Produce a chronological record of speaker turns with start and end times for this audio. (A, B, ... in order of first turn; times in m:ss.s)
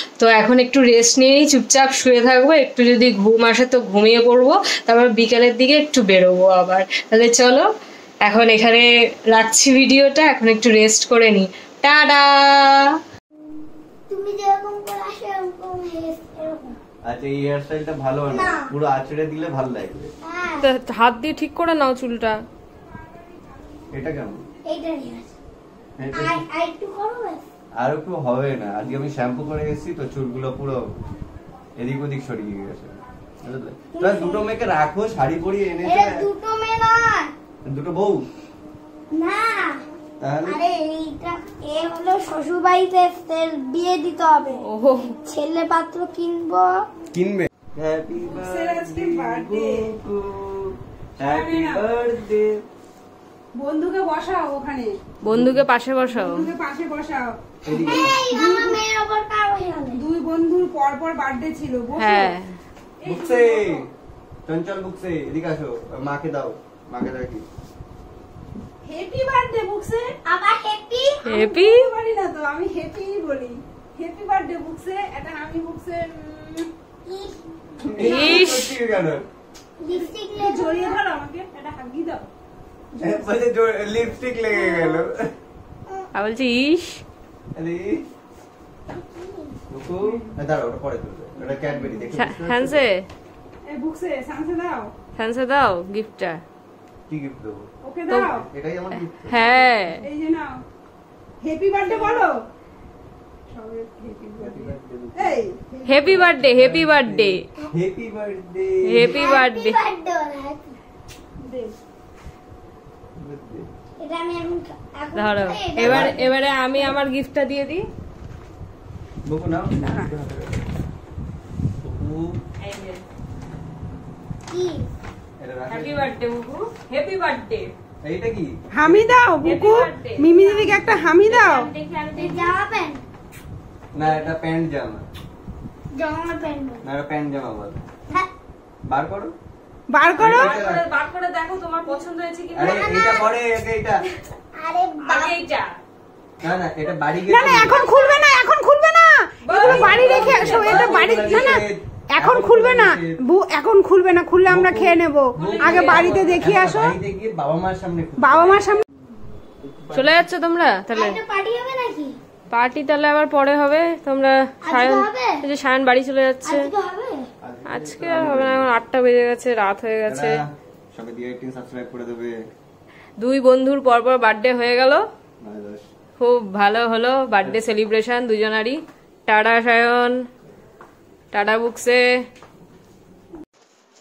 0:00.2-0:07.6 A
0:08.2-0:13.0 A
0:14.1-0:16.8 B
0:17.0-0:20.1 C
0:18.3-0:18.7 B
0:20.2-0:20.7 B
0:20.6-0:22.4 D
0:23.9-0:24.4 C
0:24.7-0:25.3 B
0:26.0-0:26.4 C
0:26.1-0:27.4 B
0:27.8-0:31.0 C
0:31.8-0:36.2 C
0:33.9-0:34.5 B
0:35.8-0:37.3 B
0:37.7-0:38.2 C
0:39.1-0:39.8 B
0:40.2-0:40.6 C
0:40.4-0:44.6 B
0:44.6-0:45.1 D
0:45.2-0:46.8 B
0:47.1-0:52.6 C
0:48.3-0:49.8 E
0:51.2-0:51.8 E
0:53.6-0:55.0 E
0:55.2-0:56.4 D
0:55.3-0:55.6 C
0:56.0-0:58.8 E
0:57.6-0:58.3 C
0:57.7-1:00.0 B
0:59.9-1:02.3 E
1:02.0-1:02.4 D
1:03.0-1:03.8 E
1:03.1-1:03.8 C
1:04.4-1:07.4 C
1:08.8-1:10.2 E
1:10.2-1:11.3 B
1:11.3-1:11.9 D
1:11.3-1:16.7 E
1:17.0-1:17.4 B
1:17.8-1:19.2 C
1:17.9-1:18.6 B
1:18.0-1:18.8 D
1:19.8-1:21.0 B
1:19.9-1:22.3 E
1:23.0-1:23.3 E
1:23.0-1:25.2 C
1:26.1-1:27.0 D
1:27.5-1:28.0 C
1:29.0-1:29.5 B
1:29.7-1:32.8 C
1:32.1-1:33.1 D
1:33.6-1:34.9 E
1:35.2-1:36.4 D
1:37.1-1:37.7 C
1:37.8-1:38.4 E
1:38.3-1:39.7 C
1:39.3-1:40.0 D
1:40.0-1:40.6 E
1:41.4-1:42.4 E
1:41.9-1:42.3 B
1:43.5-1:46.2 E
1:44.4-1:45.4 C
1:45.8-1:47.4 D
1:46.1-1:49.3 C
1:48.9-1:49.8 D
1:49.0-1:50.8 B
1:51.4-1:51.7 E
1:53.2-1:53.7 C
1:54.0-1:57.0 B
1:55.2-1:57.8 D
1:55.8-1:56.2 C
1:59.2-2:00.6 C
2:01.8-2:02.4 C
2:02.6-2:03.0 D
2:04.5-2:04.9 B
2:05.4-2:06.1 C
2:05.7-2:07.7 D
2:08.0-2:09.1 C
2:08.8-2:11.7 E
2:09.4-2:12.6 D
2:12.1-2:13.0 B
2:13.9-2:15.1 C
2:15.9-2:16.8 B
2:16.8-2:17.8 C
2:18.9-2:19.3 C
2:19.9-2:20.5 E
2:20.2-2:23.1 D
2:20.2-2:20.8 C
2:22.5-2:24.0 C
2:22.6-2:23.3 B
2:24.5-2:25.4 B
2:25.0-2:25.7 D
2:26.4-2:28.0 C
2:27.3-2:36.9 E
2:27.6-2:28.2 B
2:29.4-2:31.5 D
2:29.6-2:33.2 C
2:34.5-2:38.6 C
2:35.4-2:36.6 D
2:38.2-2:38.8 E
2:39.5-2:40.3 C
2:39.9-2:41.2 D
2:40.9-2:42.2 B
2:42.5-2:46.7 D
2:44.6-2:45.4 B
2:46.4-2:47.3 B
2:47.4-2:48.8 C
2:47.7-2:50.4 D
2:50.1-2:52.3 C
2:53.2-2:55.0 D
2:55.4-2:55.9 C
2:56.2-3:00.2 D
3:01.3-3:02.0 D